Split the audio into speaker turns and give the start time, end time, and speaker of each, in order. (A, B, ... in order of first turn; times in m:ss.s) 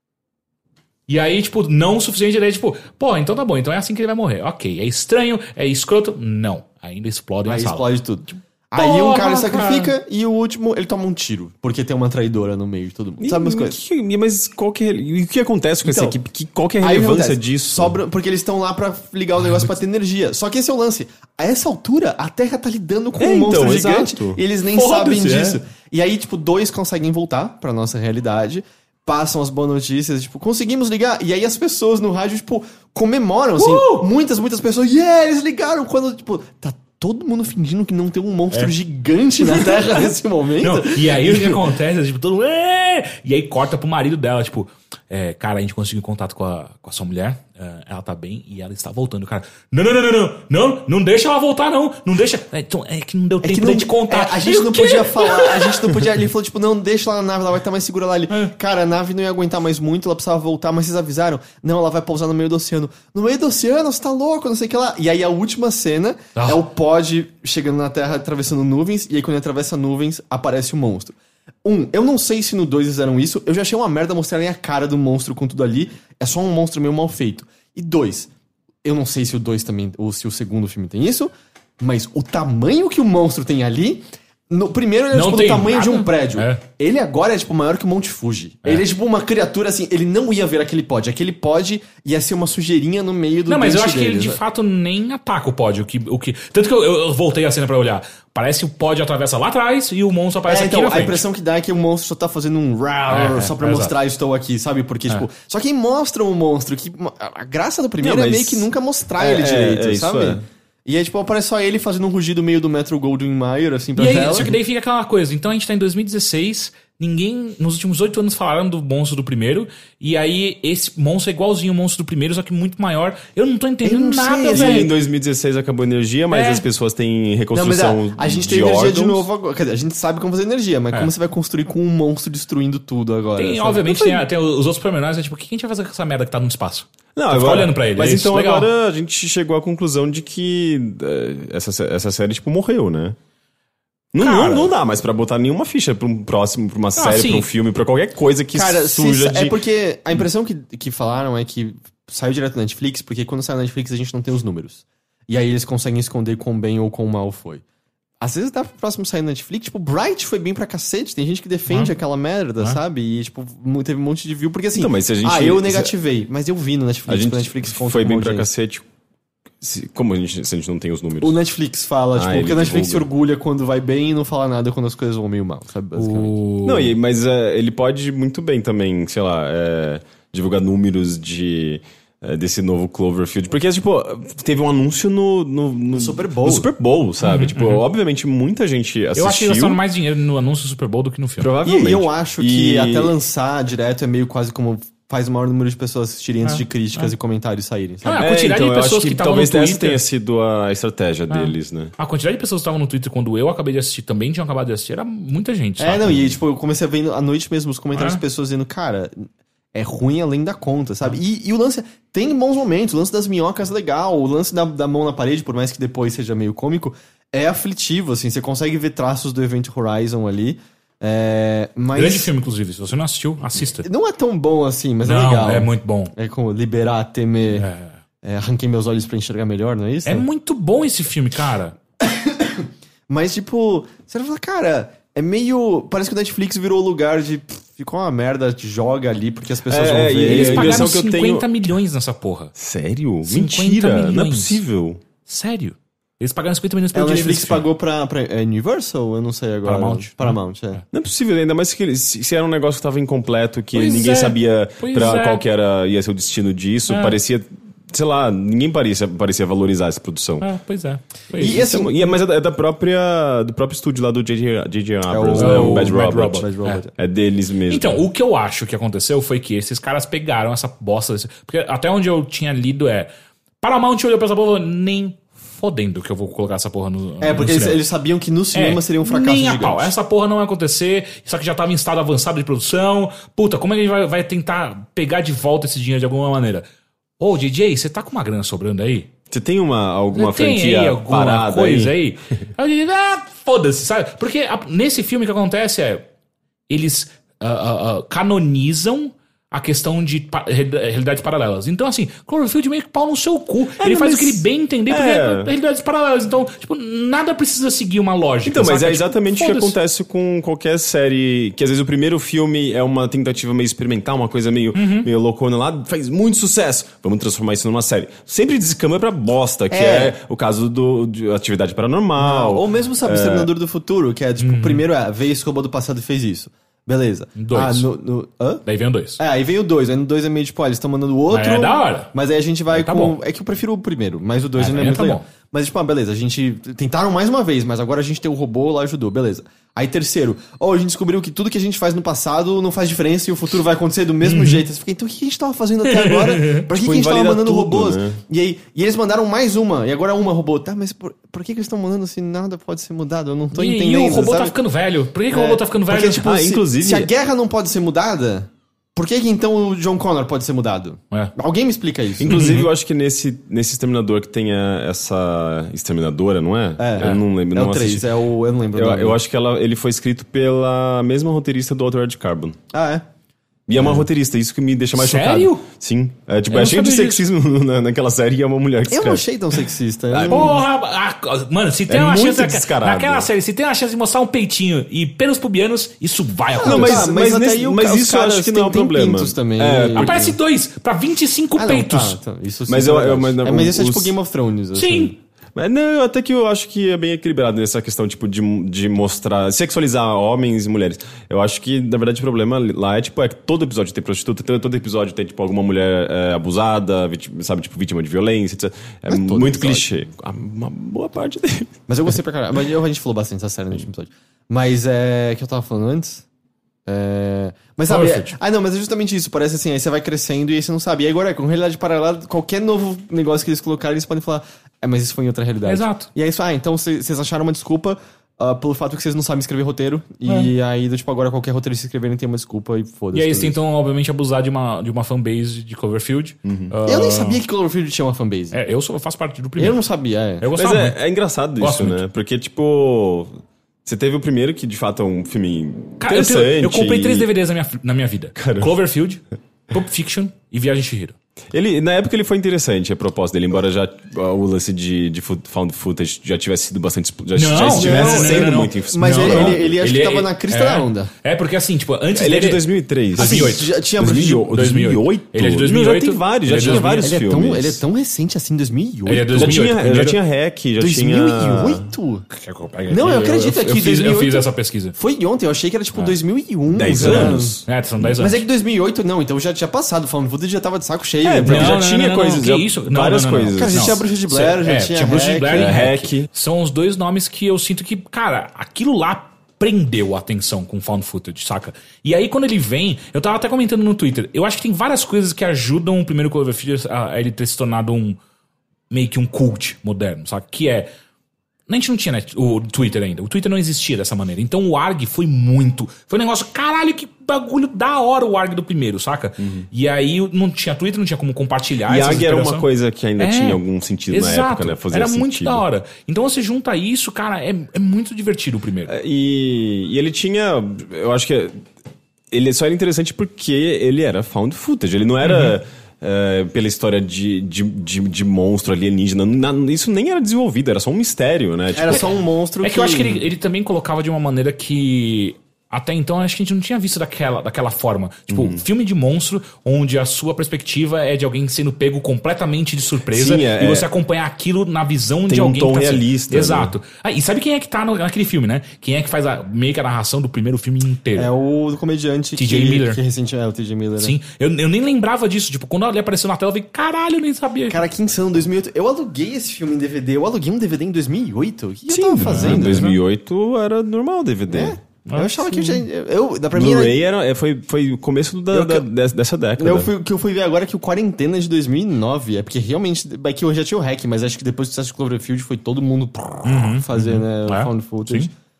0:01.1-0:07.9 A
0:07.5-0:13.8 B
0:08.8-0:09.9 A
0:13.2-0:18.0 C
0:15.8-0:16.2 B
0:16.8-0:41.6 B
0:19.4-0:19.8 A
0:23.2-0:24.4 C
0:24.8-0:25.6 A
0:33.6-0:34.1 A
0:39.4-0:40.0 A
0:40.6-0:55.8 A
0:53.4-1:18.3 B
1:06.4-1:06.6 A
1:18.8-1:34.4 B
1:25.1-1:26.6 A
1:33.5-1:41.2 A
1:40.5-1:54.5 B
1:43.1-1:43.9 A
1:48.0-1:50.4 C
1:54.0-2:04.9 A
2:03.8-2:04.9 B
2:04.5-2:09.3 C
2:06.3-2:06.6 A
2:07.5-2:14.1 B
2:13.4-2:18.7 A
2:13.9-2:14.2 C
2:17.2-2:23.2 C
2:24.1-2:29.6 C
2:24.2-2:24.7 A
2:27.0-2:27.5 A
2:28.5-2:37.6 B
2:38.2-2:48.5 B
2:41.7-2:41.9 A
2:44.8-2:45.9 C
2:47.1-2:48.8 C
2:49.6-2:51.4 C
2:51.2-2:56.4 B
2:52.1-2:53.1 C
2:56.0-2:57.0 A
2:56.6-3:09.8 C
3:05.9-3:06.7 B
3:07.2-3:07.8 A
3:09.2-3:11.5 A
3:11.4-3:13.1 C
3:11.6-3:18.3 B
3:16.4-3:17.1 A
3:18.0-3:20.0 A
3:18.2-3:21.9 C
3:21.3-3:26.2 A
3:25.8-3:42.3 B
3:28.0-3:28.2 A
3:42.0-3:43.9 A
3:43.8-3:47.7 B
3:45.0-3:46.1 A
3:47.6-3:47.9 A
3:48.2-3:50.2 B
3:50.0-3:51.8 A
3:52.0-4:00.9 B
3:59.7-4:01.5 C
4:00.3-4:02.5 A
4:02.6-4:05.0 C
4:03.3-4:04.6 A
4:05.3-4:07.7 A
4:06.9-4:10.8 B
4:09.6-4:10.8 A
4:10.9-4:20.5 C
4:13.8-4:15.4 A
4:16.9-4:17.2 A
4:20.4-4:21.6 A
4:21.4-4:22.1 B
4:21.4-4:28.0 C
4:25.1-4:26.9 B
4:25.4-4:26.8 A
4:27.7-4:33.1 A
4:33.6-4:37.8 A
4:37.2-4:39.9 B
4:38.5-4:46.7 A
4:47.2-4:49.1 A
4:49.3-4:51.9 C
4:50.1-4:56.1 A
4:56.7-5:09.8 A
5:03.8-5:05.5 C
5:08.4-5:23.5 C
5:14.7-5:15.1 A
5:19.7-5:20.2 B
5:22.2-5:28.6 B
5:24.4-5:24.8 A
5:27.4-5:27.9 A
5:28.6-5:29.2 A
5:29.2-5:54.6 B
5:31.3-5:32.1 A
5:32.7-5:33.2 A
5:34.6-5:35.3 A
5:44.2-5:44.6 A
5:45.8-5:46.7 A
5:46.7-5:48.2 C
5:53.5-5:56.3 A
5:55.3-6:02.6 B
5:56.2-5:57.1 C
6:02.2-6:08.1 C
6:02.3-6:02.6 A
6:06.8-6:09.2 B
6:08.7-6:12.6 C
6:12.7-6:13.0 B
6:13.7-6:19.3 C
6:15.0-6:15.7 A
6:16.5-6:17.2 A
6:18.9-6:20.6 B
6:20.1-6:20.6 C
6:20.3-6:27.1 A
6:21.9-6:23.3 C
6:26.6-6:30.4 B
6:26.6-6:30.2 C
6:30.0-6:32.2 A
6:31.6-6:35.2 B
6:32.7-6:34.2 C
6:34.8-6:35.1 A
6:35.6-6:51.8 C
6:49.1-6:49.9 B
6:51.9-6:56.2 B
6:56.9-7:13.6 B
6:57.9-6:58.4 A
7:05.7-7:06.1 A
7:10.3-7:10.5 A
7:13.1-7:17.4 A
7:16.4-7:16.7 C
7:16.9-7:18.6 B
7:18.5-7:19.8 A
7:19.6-7:20.5 B
7:20.4-7:21.0 A
7:20.5-7:27.3 C
7:21.6-7:22.0 A
7:26.0-7:31.2 A
7:28.4-7:28.7 C
7:31.5-7:39.8 C
7:37.4-7:43.7 A
7:37.6-7:41.1 B
7:42.1-7:47.8 C
7:43.2-7:44.5 B
7:44.4-7:47.2 A
7:46.6-7:49.6 B
7:49.1-7:50.2 A
7:49.4-7:51.9 C
7:50.8-7:52.2 B
7:52.3-7:55.0 A
7:52.9-7:57.6 B
7:56.7-7:58.1 C
7:57.0-7:58.4 A
7:58.2-8:01.8 B
8:01.2-8:04.0 C
8:01.4-8:18.2 A
8:03.6-8:05.8 B
8:05.5-8:06.3 C
8:18.9-8:20.9 A
8:21.7-8:32.7 A
8:29.4-8:29.7 C
8:31.9-8:35.6 C
8:33.2-8:38.9 A
8:38.9-8:41.6 C
8:42.3-8:52.2 C
8:45.2-8:45.6 A
8:51.7-8:53.2 B
8:52.6-9:11.3 A
8:58.3-8:58.6 C
9:03.1-9:03.9 C
9:05.3-9:06.7 C
9:11.2-9:14.2 B
9:12.4-9:13.0 A
9:14.0-9:17.8 A
9:17.7-9:22.9 B
9:21.9-9:24.8 C
9:22.1-9:23.0 A
9:24.5-9:27.0 B
9:25.1-9:25.8 A
9:26.5-9:29.9 C
9:28.5-9:28.9 B
9:29.6-9:38.3 B
9:36.5-9:38.3 A